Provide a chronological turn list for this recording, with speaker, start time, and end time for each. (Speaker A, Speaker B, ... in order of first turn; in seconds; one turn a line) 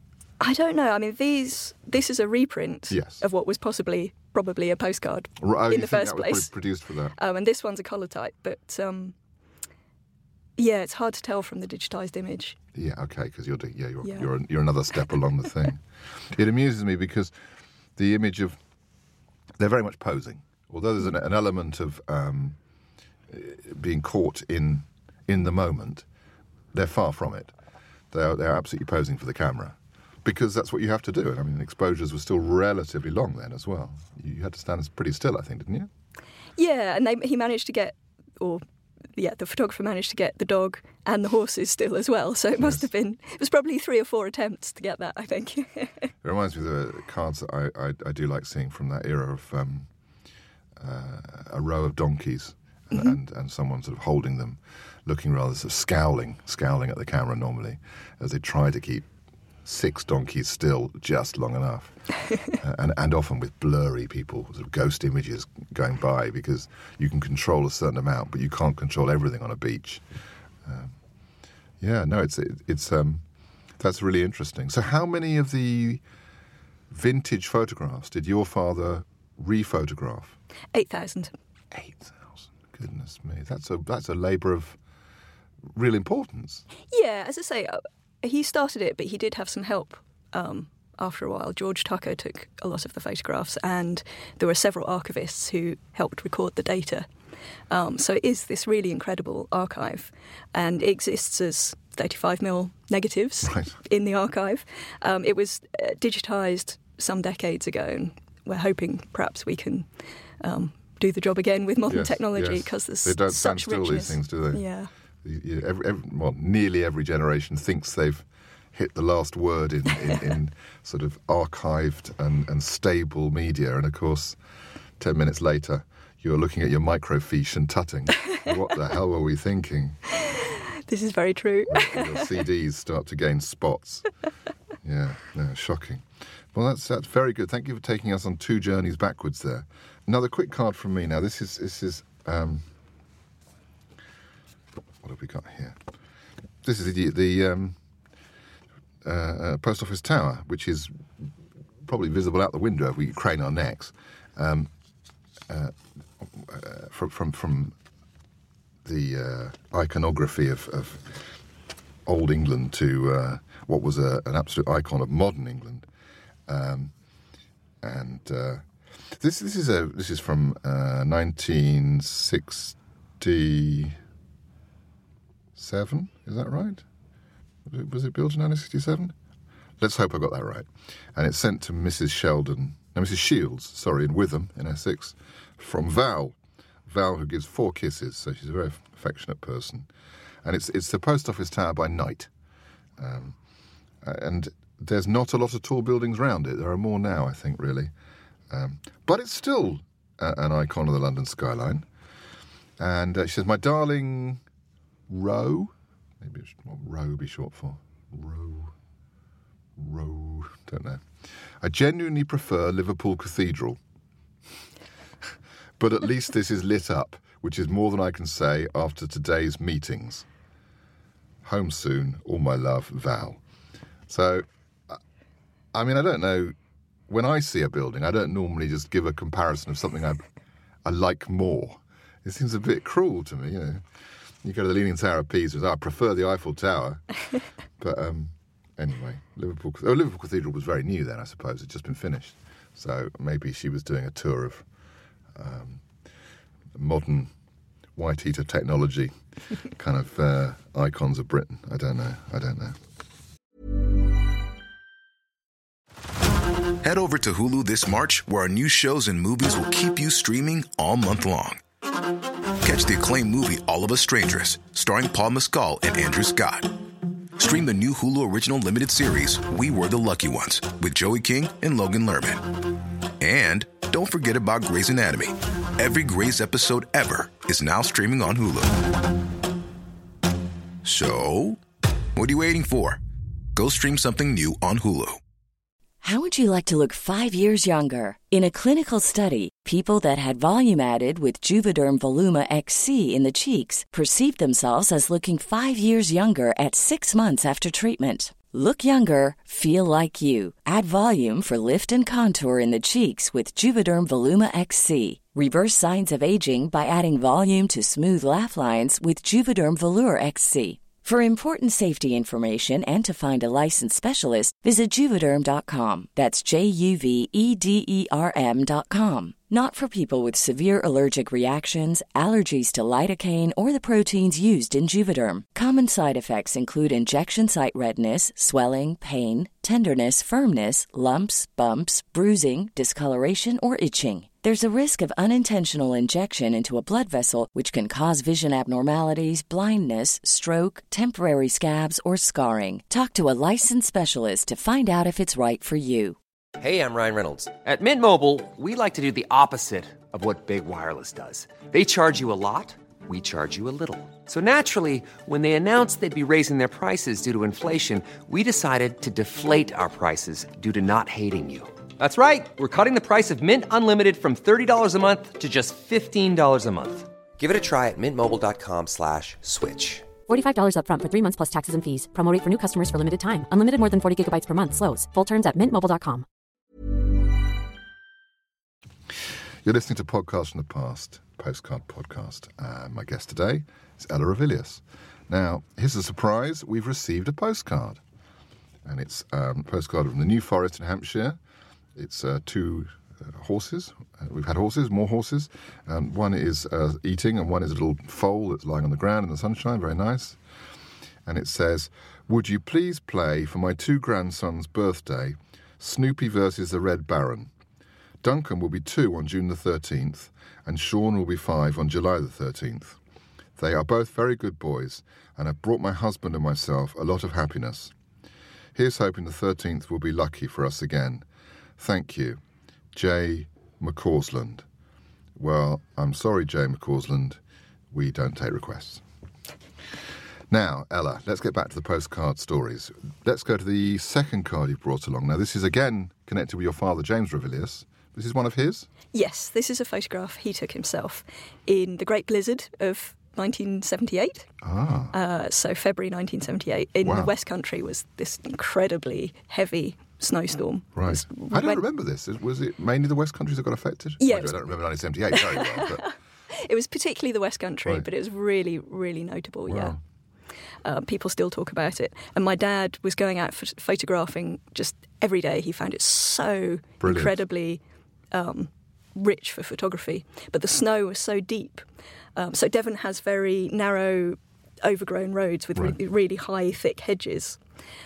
Speaker A: 0.4-6.5
Speaker B: 2.9-3.2
Speaker B: 5.4-7.2
Speaker A: 7.2-9.2
Speaker A: 10.6-12.6
Speaker B: 12.8-17.3
Speaker A: 14.0-14.3
Speaker B: 18.0-18.6
Speaker B: 19.6-22.6
Speaker B: 23.3-26.1
Speaker B: 26.7-27.5
Speaker B: 28.1-35.9
Speaker A: 36.6-38.6
Speaker A: 39.1-46.1
Speaker B: 42.6-42.9
Speaker B: 46.2-49.9
Speaker B: 50.8-59.1
Speaker B: 59.6-62.0
Speaker B: 62.5-70.0
Speaker B: 70.6-71.0
Speaker B: 71.8-73.2
Speaker B: 73.8-76.0
Speaker B: 76.9-80.4
Speaker A: 80.7-81.3
Speaker B: 81.7-84.8
Speaker B: 85.7-86.7
Speaker A: 86.9-97.1
Speaker A: 97.7-109.9
Speaker B: 103.5-103.7
Speaker A: 110.4-114.9
Speaker B: 111.9-114.7
Speaker B: 115.2-124.4
Speaker B: 125.0-130.0
Speaker A: 130.3-132.3
Speaker B: 131.7-134.1
Speaker B: 134.8-142.7
Speaker B: 145.0-145.8
Speaker B: 146.6-147.8
Speaker B: 149.0-151.3
Speaker B: 151.8-154.7
Speaker B: 155.5-157.8
Speaker B: 158.8-161.3
Speaker B: 162.1-165.9
Speaker B: 166.5-166.9
Speaker B: 167.8-174.0
Speaker B: 175.6-176.8
Speaker B: 177.7-179.2
Speaker B: 179.8-189.9
Speaker B: 190.4-192.3
Speaker B: 193.0-193.4
Speaker B: 194.0-197.9
Speaker B: 198.5-201.9
Speaker B: 202.8-204.4
Speaker B: 205.1-208.7
Speaker B: 209.8-211.1
Speaker B: 211.6-213.8
Speaker B: 215.8-220.3
Speaker B: 221.4-223.4
Speaker B: 224.1-225.0
Speaker B: 225.7-226.6
Speaker B: 227.1-230.2
Speaker B: 230.8-233.8
Speaker B: 234.4-237.1
Speaker B: 237.8-244.7
Speaker B: 245.3-245.8
Speaker B: 246.8-247.3
Speaker B: 247.9-252.8
Speaker C: 256.8-261.6
Speaker C: 262.6-266.8
Speaker C: 267.4-272.5
Speaker C: 273.2-278.9
Speaker C: 280.8-281.6
Speaker C: 282.2-283.0
Speaker C: 283.6-285.2
Speaker D: 286.0-346.2
Speaker E: 346.6-347.6
Speaker F: 347.5-367.1
Speaker E: 353.1-354.2
Speaker E: 360.1-360.8
Speaker E: 367.4-370.1
Speaker G: 370.3-376.2
Speaker B: 379.6-388.0
Speaker B: 388.9-391.4
Speaker B: 391.9-400.4
Speaker B: 401.3-407.5
Speaker B: 408.2-413.0
Speaker B: 413.6-417.9
Speaker B: 418.8-421.3
Speaker B: 421.8-422.4
Speaker B: 422.9-424.7
Speaker B: 425.4-427.4
Speaker B: 427.9-429.0
Speaker B: 430.5-438.9
Speaker A: 439.1-444.5
Speaker B: 444.6-445.1
Speaker A: 445.1-451.8
Speaker B: 447.0-447.3
Speaker B: 450.9-456.1
Speaker A: 454.2-454.6
Speaker A: 455.3-459.9
Speaker B: 459.7-460.0
Speaker A: 460.9-467.8
Speaker B: 467.0-467.4
Speaker A: 468.3-471.9
Speaker A: 472.4-477.6